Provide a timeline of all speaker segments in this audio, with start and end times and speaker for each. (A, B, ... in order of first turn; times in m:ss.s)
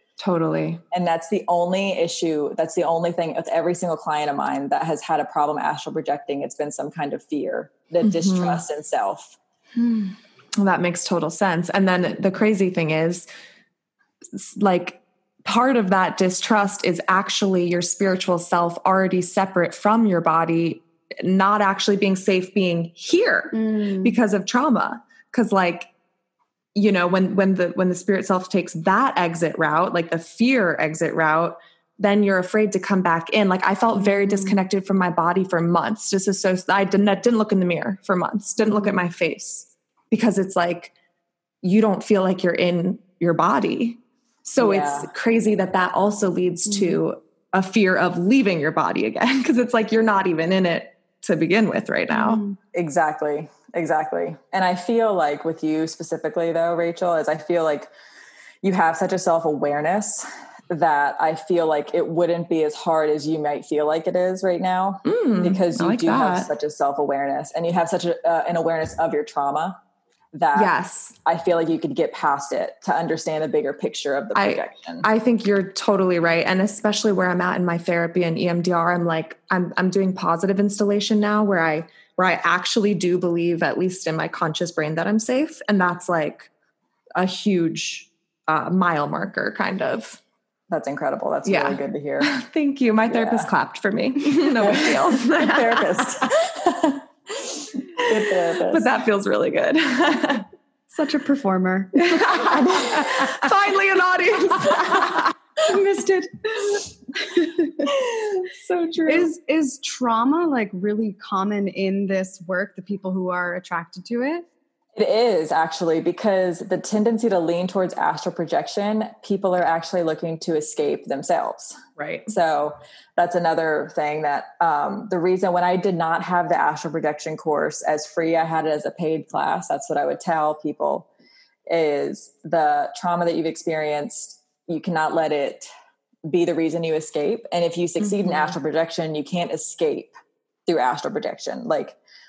0:00.2-0:00.8 A
0:00.9-0:09.4 B
0:08.0-0:08.6 A
0:10.6-0:13.3 A
0:14.3-0:25.9 A
0:23.5-0:24.2 C
0:26.7-0:40.9 A
0:34.0-0:34.6 C
0:41.6-0:52.4 A
0:44.6-0:45.1 B
0:46.7-0:47.0 C
0:52.1-0:52.6 C
0:52.7-0:57.9 B
0:58.6-1:09.8 B
1:05.0-1:06.5 A
1:10.3-1:15.1 B
1:10.5-1:11.1 A
1:14.3-1:26.5 A
1:27.2-1:30.2 A
1:30.7-1:32.4 B
1:31.4-1:36.2 A
1:33.1-1:33.5 B
1:34.6-1:37.0 B
1:37.9-1:38.9 B
1:38.0-1:40.4 A
1:40.9-1:43.3 C
1:42.0-1:45.3 A
1:45.6-1:47.9 C
1:47.8-1:49.3 A
1:49.1-1:54.4 C
1:55.0-2:11.1 B
2:02.0-2:02.3 A
2:11.7-2:15.7 B
2:16.2-2:20.1 B
2:18.0-2:18.6 A
2:20.7-2:22.0 B